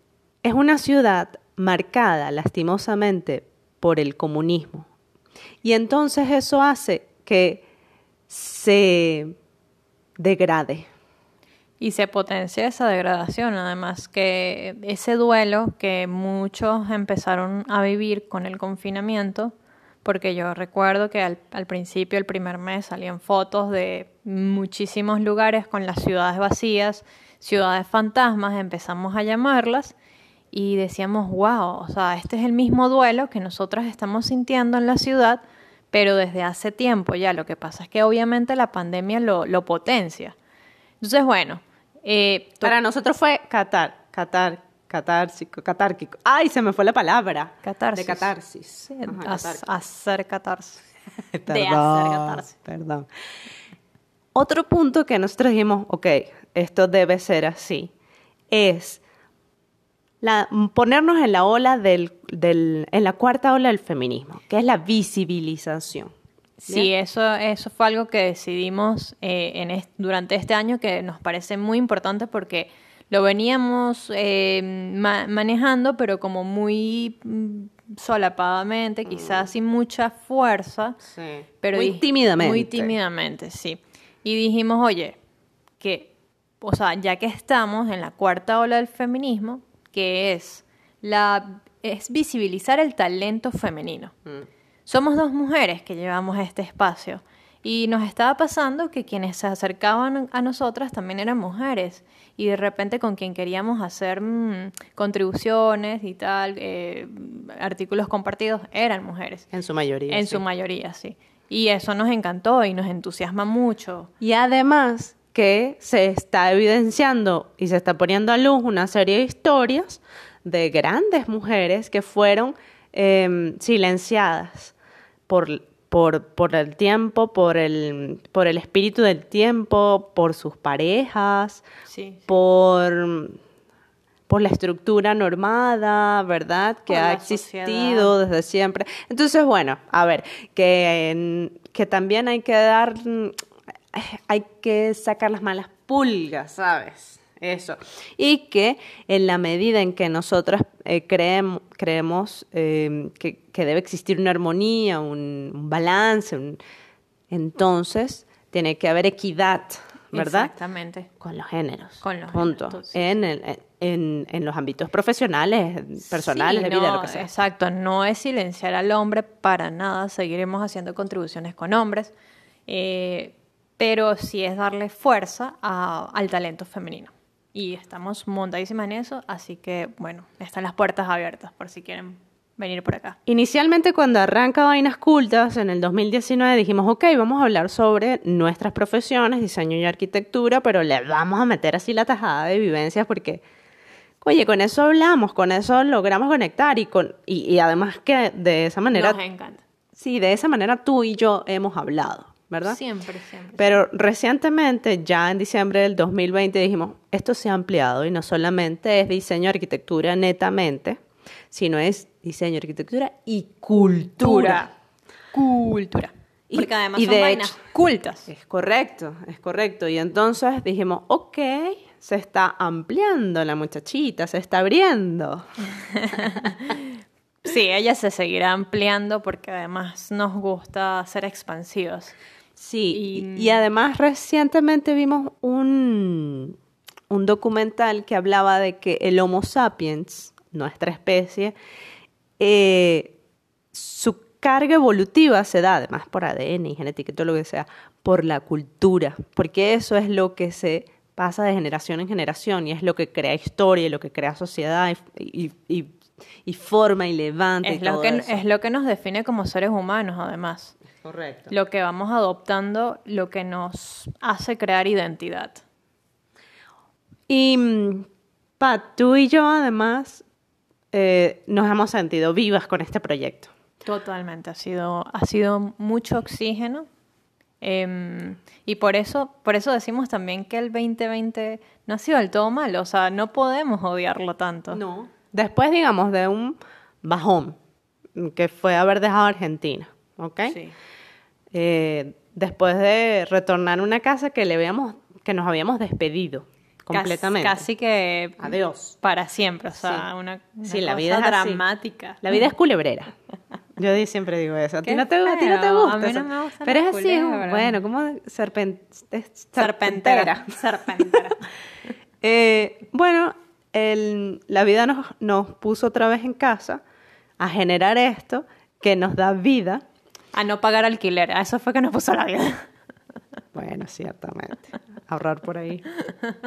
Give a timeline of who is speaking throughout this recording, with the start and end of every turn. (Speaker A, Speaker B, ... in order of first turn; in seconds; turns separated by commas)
Speaker A: 0.4-4.9, Speaker A: 5.6-7.6, Speaker A: 8.3-9.3, Speaker A: 10.2-10.9, Speaker B: 11.8-29.9, Speaker B: 30.5-40.3, Speaker B: 41.0-42.7, Speaker A: 42.6-49.6, Speaker B: 47.6-48.3, Speaker B: 48.9-50.8, Speaker A: 51.3-53.1, Speaker B: 51.5-52.5, Speaker A: 54.3-57.9, Speaker A: 58.5-59.0, Speaker A: 60.2-66.1, Speaker B: 66.6-81.0, Speaker A: 79.1-79.5, Speaker A: 81.0-82.9, Speaker B: 81.6-85.2, Speaker B: 85.8-94.1, Speaker B: 94.8-109.5, Speaker A: 109.5-110.4, Speaker B: 110.1-114.1, Speaker A: 114.2-124.7, Speaker A: 125.3-131.6, Speaker B: 131.9-132.2, Speaker A: 132.3-133.4, Speaker A: 134.3-143.3, Speaker B: 136.9-138.1, Speaker A: 143.9-156.6, Speaker A: 157.3-160.5, Speaker B: 160.1-161.1, Speaker A: 161.2-167.3, Speaker B: 162.0-163.1, Speaker B: 166.1-172.1, Speaker B: 172.7-183.2, Speaker A: 183.2-193.4, Speaker A: 194.2-199.2, Speaker B: 198.9-199.6, Speaker A: 199.9-202.8, Speaker B: 202.6-203.8, Speaker A: 203.6-211.0, Speaker A: 211.5-214.7, Speaker B: 214.2-214.7, Speaker B: 215.3-218.3, Speaker A: 216.5-217.6, Speaker A: 218.3-225.5, Speaker B: 225.9-232.2, Speaker A: 232.6-236.6, Speaker B: 232.9-233.6, Speaker A: 237.1-241.6, Speaker A: 242.4-243.1, Speaker A: 243.7-258.4, Speaker B: 257.6-260.8, Speaker A: 261.0-261.5, Speaker B: 261.5-265.6, Speaker A: 267.3-268.1, Speaker A: 268.6-270.2, Speaker A: 270.9-273.5, Speaker B: 273.9-276.8, Speaker B: 277.6-284.8, Speaker A: 284.7-287.6, Speaker A: 288.1-290.6, Speaker B: 290.5-290.7, Speaker A: 291.5-297.6, Speaker B: 296.9-302.4, Speaker A: 298.4-299.0, Speaker A: 299.8-300.1, Speaker A: 300.6-301.6, Speaker A: 302.2-303.1, Speaker A: 303.8-311.2, Speaker B: 304.8-307.8, Speaker B: 309.6-311.4, Speaker A: 312.2-316.8, Speaker A: 317.4-319.8, Speaker B: 320.3-322.7, Speaker A: 323.5-325.9